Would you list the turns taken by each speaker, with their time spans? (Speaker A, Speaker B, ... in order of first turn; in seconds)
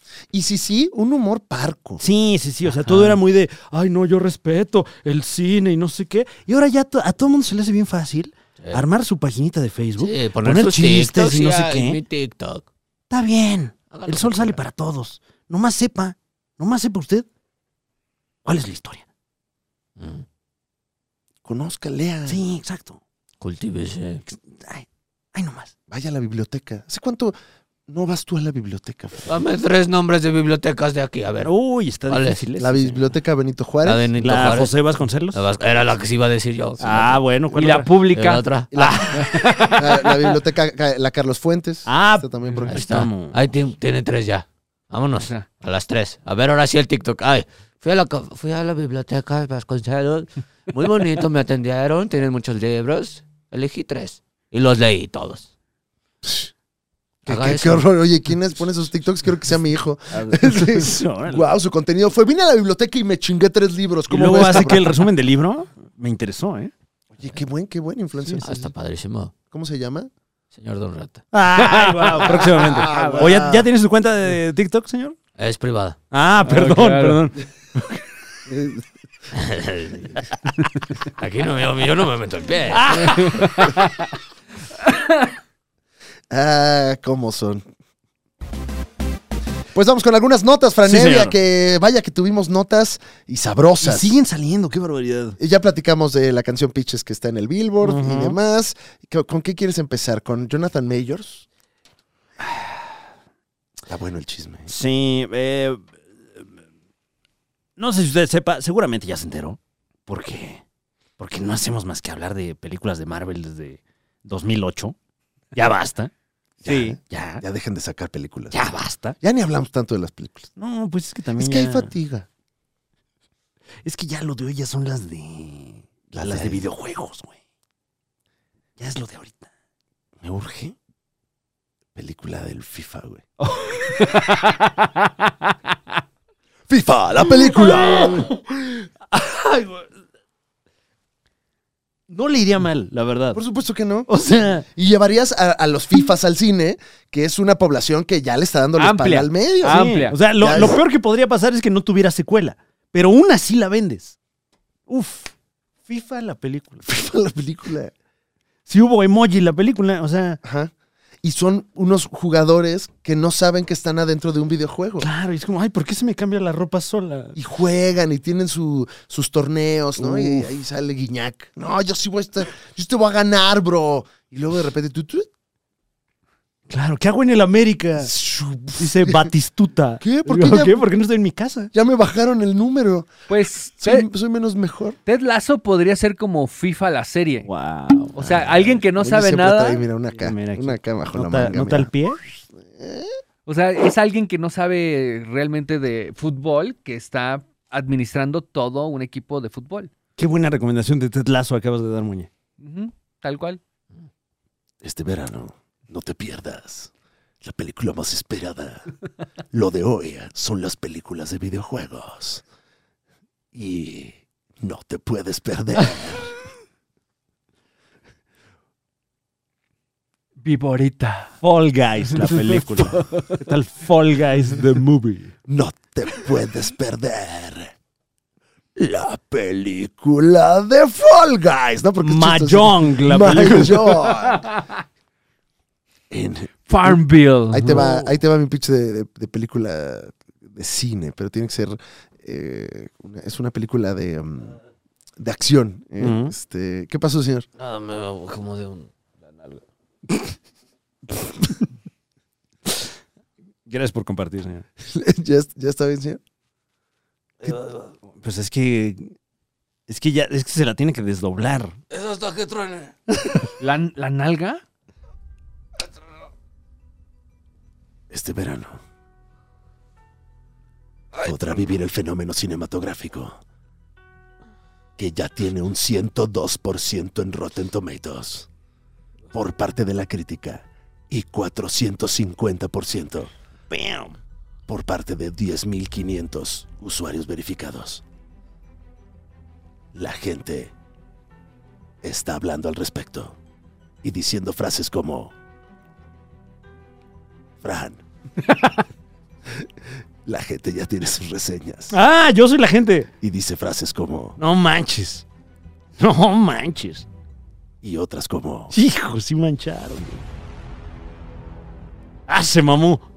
Speaker A: 0.3-2.0, 21.4-22.4, 25.9-27.4, 27.9-29.3, 32.6-34.1, 38.7-42.9, 56.2-56.5, 57.3-65.0, 67.2-68.7, 69.5-70.1, 72.2-73.7, 78.5-78.8, 86.3-87.6, 89.7-94.2, 95.4-101.5, 103.9-104.7, 116.6-118.6, 119.2-120.5, 121.4-122.3, 126.1-126.7, 130.2-130.8, 131.9-133.2, 136.7-138.3, 143.3-144.1, 144.7-150.8, 156.9-157.9, 160.4-160.7, 161.2-165.1, 167.3-175.3, 178.0-179.3, 180.0-180.8, 181.7-183.1, 183.8-185.0, 188.2-191.9, 192.6-193.1, 204.8-206.9, 207.4-208.9, 209.5-212.4, 213.5-216.3, 225.5-227.7, 228.8-234.5, 236.1-237.0, 237.5-244.6, 245.2-247.5, 254.8-256.2, 268.1-268.8, 271.2-273.4, 275.0-278.5, 279.3-283.3, 284.7-288.0, 289.9-290.7, 292.0-293.4, 294.0-295.3, 297.6-298.0, 300.2-302.0, 303.2-304.4, 307.8-308.7
Speaker B: 2.0-12.0, 13.1-17.3, 18.4-19.1, 22.3-23.0, 24.3-25.7, 31.4-33.0, 34.2-35.5, 36.8-37.9, 41.9-43.4, 60.1-61.5, 64.1-66.7, 71.3-75.2, 76.1-78.1, 82.7-83.8, 90.8-91.3, 93.8-95.4, 97.8-98.4, 102.4-102.9, 104.7-105.8, 107.8-110.6, 111.2-115.0, 115.5-116.1, 116.7-117.4, 118.5-119.2, 120.6-121.9, 123.8-127.3, 128.8-129.5, 133.4-134.4, 137.3-139.9, 142.1-143.4, 144.1-144.7, 149.6-154.2, 154.9-155.3, 155.9-156.9, 158.7-160.4, 165.0-167.4, 170.0-170.5, 176.7-178.1, 178.8-181.7, 187.4-188.2, 190.2-192.2, 200.2-202.3, 221.4-225.3, 232.0-234.1, 237.7-238.1, 246.0-246.3, 253.7-254.7, 257.4-259.1, 259.9-261.8, 283.7-284.2, 301.9-303.1, 304.4-305.2, 306.0-307.1, 308.7-310.2, 312.3-313.1
Speaker C: 10.0-12.7, 13.9-14.6, 20.0-20.2, 23.4-24.2, 29.3-31.5, 32.1-32.4, 33.8-34.7, 35.3-37.2, 38.1-39.8, 42.7-55.5, 57.3-57.9, 68.4-69.3, 70.5-71.2, 75.4-76.0, 79.3-80.2, 81.1-83.3, 247.6-249.6, 261.9-263.0
Speaker D: 37.5-38.4, 39.2-40.0, 45.2-45.5, 71.5-73.3, 76.5-77.2, 83.1-84.0, 84.9-85.1, 134.0-134.7, 148.8-150.2, 183.3-184.1, 185.1-187.5, 188.1-189.8, 193.5-199.9, 202.6-203.6, 220.4-221.3, 222.2-223.4, 236.7-237.8, 263.6-264.6